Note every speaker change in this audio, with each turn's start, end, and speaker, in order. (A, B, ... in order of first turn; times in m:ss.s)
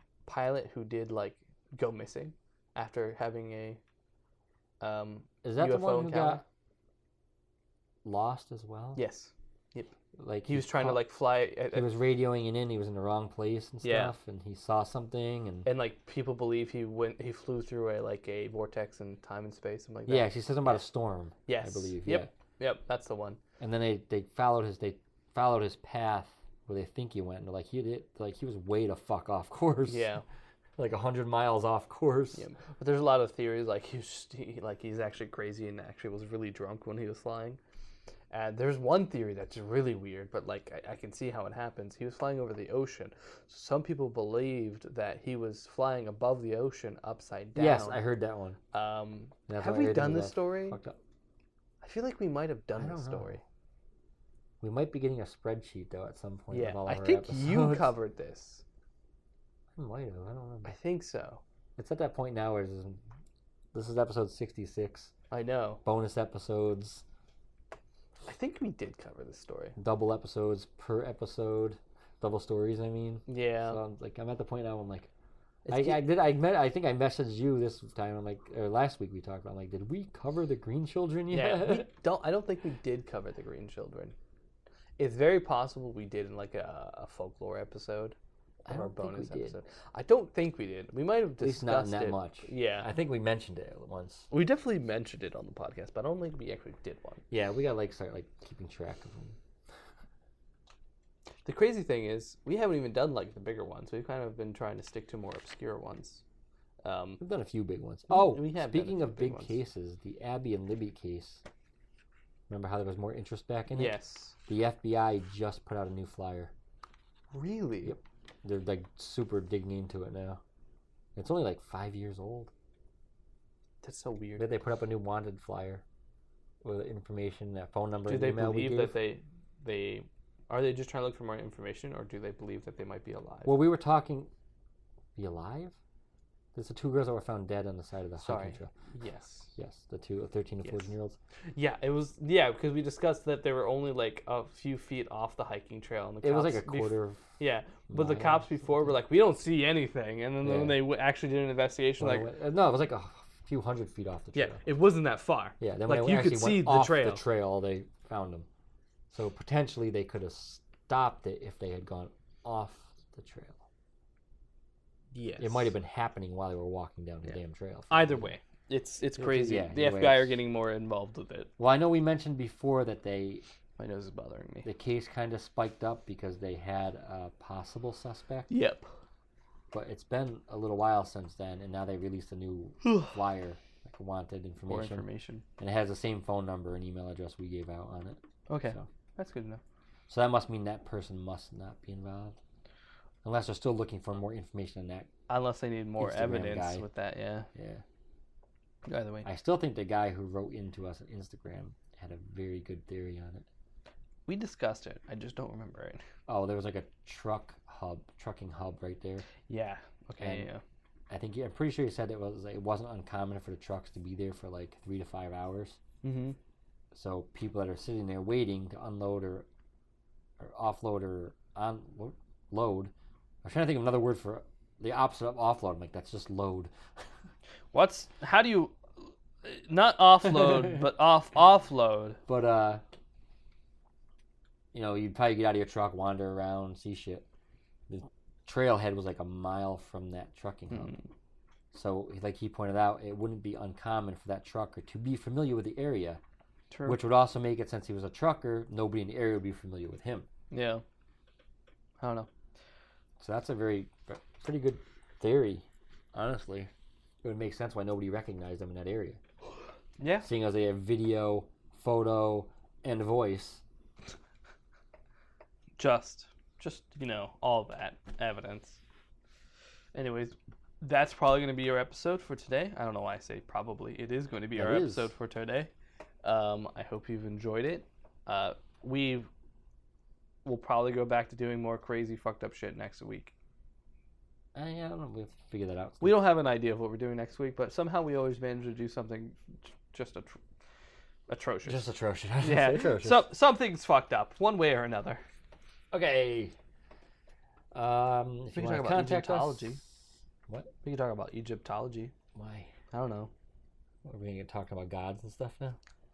0:00.2-0:03.8 A
0:04.8-0:06.4 A
0:05.4-0:06.4 B
0:08.0-0:09.0 B
0:09.0-0:11.9 A
0:10.2-0:11.0 B
0:11.7-0:15.7 B
0:13.8-0:14.1 A
0:15.6-0:20.8 A
0:20.1-0:22.3 B
0:21.5-0:23.4 A
0:23.6-0:30.1 B
0:29.9-0:30.2 A
0:30.8-0:32.5 B
0:32.3-0:37.6 A
0:38.3-0:48.0 A
0:47.5-0:48.6 B
0:48.7-0:50.8 A
0:49.5-0:51.0 B
0:51.8-0:53.4 A
0:52.8-0:53.3 B
0:54.6-0:57.9 B
0:56.5-0:58.6 A
0:59.8-1:00.7 B
1:00.6-1:01.4 A
1:01.8-1:03.0 B
1:03.7-1:05.1 B
1:05.3-1:05.8 A
1:05.8-1:07.0 B
1:08.2-1:09.7 A
1:09.8-1:15.1 B
1:13.3-1:13.8 A
1:15.6-1:16.0 A
1:15.7-1:21.9 B
1:21.3-1:24.1 A
1:25.0-1:32.9 A
1:28.7-1:29.6 B
1:31.4-1:34.3 B
1:34.3-1:37.2 A
1:37.3-1:39.4 B
1:41.4-1:46.2 A
1:46.8-1:47.2 A
1:47.2-1:51.4 B
1:48.1-1:49.6 A
1:52.5-1:56.5 B
1:53.7-1:54.4 A
1:57.3-1:58.0 A
1:57.8-2:00.4 B
2:01.2-2:02.5 B
2:03.8-2:04.5 A
2:04.4-2:05.8 B
2:06.6-2:08.9 B
2:08.0-2:13.6 A
2:13.4-2:14.3 B
2:15.2-2:15.8 B
2:16.5-2:18.7 B
2:18.2-2:19.5 A
2:19.6-2:21.2 B
2:20.6-2:20.9 A
2:21.5-2:32.3 A
2:26.2-2:27.2 B
2:27.9-2:28.5 B
2:30.4-2:30.8 B
2:32.0-2:34.6 B
2:34.3-2:37.2 A
2:35.6-2:38.5 B
2:39.1-2:43.6 B
2:45.1-2:45.7 A
2:45.4-2:48.3 B
2:47.9-2:51.5 A
2:49.2-2:50.4 B
2:51.6-2:53.4 B
2:53.8-2:54.7 A
2:54.6-2:58.5 B
2:58.5-2:58.9 A
2:59.7-3:08.8 B
3:02.8-3:03.2 A
3:04.7-3:05.4 A
3:08.5-3:09.6 A
3:10.1-3:12.4 B
3:13.2-3:15.1 B
3:15.3-3:17.5 A
3:16.0-3:16.8 B
3:17.5-3:17.8 B
3:18.8-3:19.3 A
3:19.2-3:23.4 B
3:24.3-3:26.0 A
3:26.3-3:29.2 B
3:29.5-3:30.6 A
3:30.2-3:30.5 B
3:31.1-3:35.8 B
3:36.0-3:36.4 A
3:36.9-3:39.4 B
3:40.4-3:42.9 B
3:43.4-3:46.7 B
3:47.7-3:52.2 A
3:52.3-3:52.8 B
3:54.7-3:57.2 B
3:57.9-4:01.0 B
4:00.7-4:01.1 A
4:01.7-4:06.2 B
4:06.7-4:07.0 A
4:06.9-4:10.3 B
4:10.5-4:10.8 A
4:12.0-4:12.3 A
4:13.2-4:16.7 B
4:17.2-4:19.2 B
4:20.0-4:20.3 A
4:20.2-4:23.6 B
4:25.8-4:28.8 A
4:29.9-4:35.7 A
4:34.6-4:35.1 B
4:36.2-4:39.3 A
4:40.4-4:43.3 A
4:44.5-4:46.2 B
4:46.0-4:50.4 A
4:51.3-4:51.9 A
4:51.6-4:53.2 B
4:52.4-4:55.2 A
4:55.9-4:56.5 B
4:57.7-4:59.8 B
4:58.5-4:59.8 A
5:00.8-5:02.1 A
5:02.3-5:02.7 B
5:02.9-5:03.3 A
5:04.0-5:05.8 B